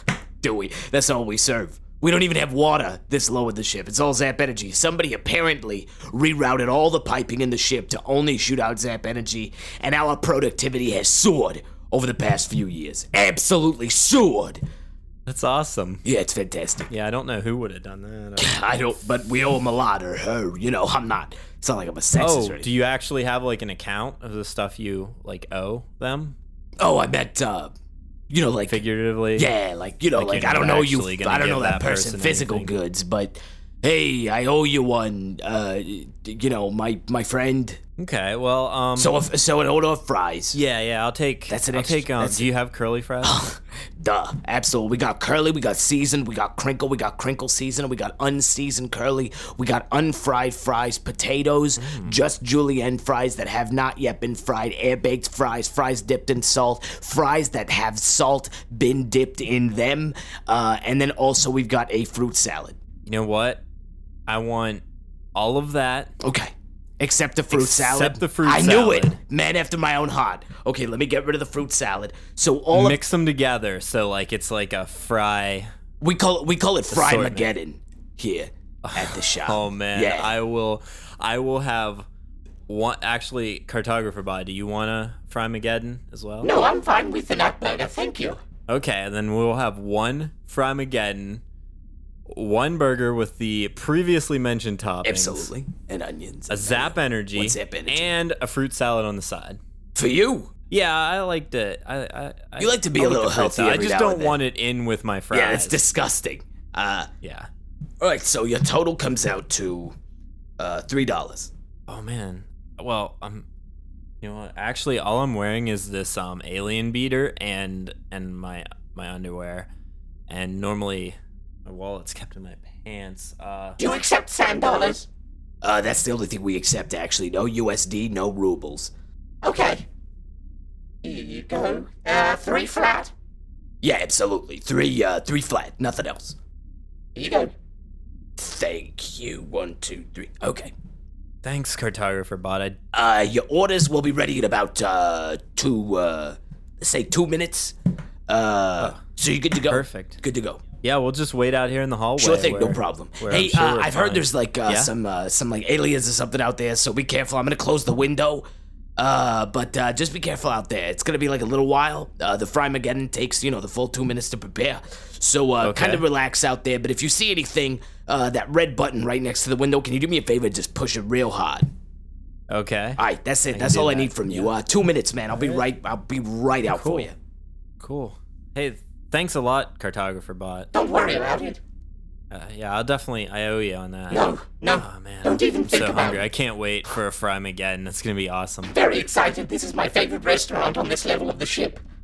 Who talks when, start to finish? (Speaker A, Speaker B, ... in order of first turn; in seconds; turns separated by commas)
Speaker A: 0.4-14.6, Speaker B: 15.2-16.0, Speaker A: 16.1-16.9, Speaker B: 16.9-18.6, Speaker A: 18.6-22.6, Speaker B: 22.2-26.4, Speaker A: 26.8-27.7, Speaker A: 28.3-28.8, Speaker B: 28.7-29.5, Speaker A: 29.4-37.8, Speaker B: 30.1-32.7, Speaker B: 38.0-39.2, Speaker A: 39.0-40.5, Speaker B: 40.5-43.4, Speaker A: 41.5-42.4, Speaker A: 43.5-62.8, Speaker B: 51.8-52.2, Speaker B: 63.0-63.6, Speaker B: 64.3-64.8, Speaker B: 65.3-66.1, Speaker A: 66.2-73.0, Speaker B: 67.5-69.2, Speaker B: 72.7-75.7, Speaker A: 76.0-80.2, Speaker B: 76.9-77.5, Speaker B: 78.8-82.1, Speaker B: 82.7-86.5, Speaker C: 86.4-88.4, Speaker B: 88.7-91.4, Speaker B: 92.3-95.5, Speaker A: 95.0-98.1, Speaker B: 96.5-99.6, Speaker A: 100.0-100.5, Speaker B: 100.7-105.8, Speaker A: 102.6-104.3, Speaker A: 105.3-107.1, Speaker B: 107.2-107.5, Speaker A: 108.0-109.9, Speaker A: 110.6-111.5, Speaker B: 111.9-113.5, Speaker B: 114.2-119.7, Speaker B: 120.3-123.8, Speaker C: 123.8-125.1, Speaker A: 125.6-128.9, Speaker C: 129.4-129.8, Speaker C: 131.0-133.1, Speaker A: 133.8-136.3, Speaker C: 137.1-137.5, Speaker A: 138.4-140.7, Speaker B: 141.4-142.8, Speaker A: 142.9-147.7, Speaker A: 148.3-150.6, Speaker B: 149.7-150.2, Speaker B: 150.8-154.9, Speaker A: 152.2-158.4, Speaker A: 159.0-171.7, Speaker B: 165.6-166.0, Speaker B: 172.5-174.5, Speaker A: 173.0-177.1, Speaker B: 175.3-175.6, Speaker B: 176.7-177.1, Speaker B: 177.8-180.7, Speaker C: 180.7-181.6, Speaker B: 182.3-188.7, Speaker C: 184.1-186.2, Speaker C: 188.7-191.8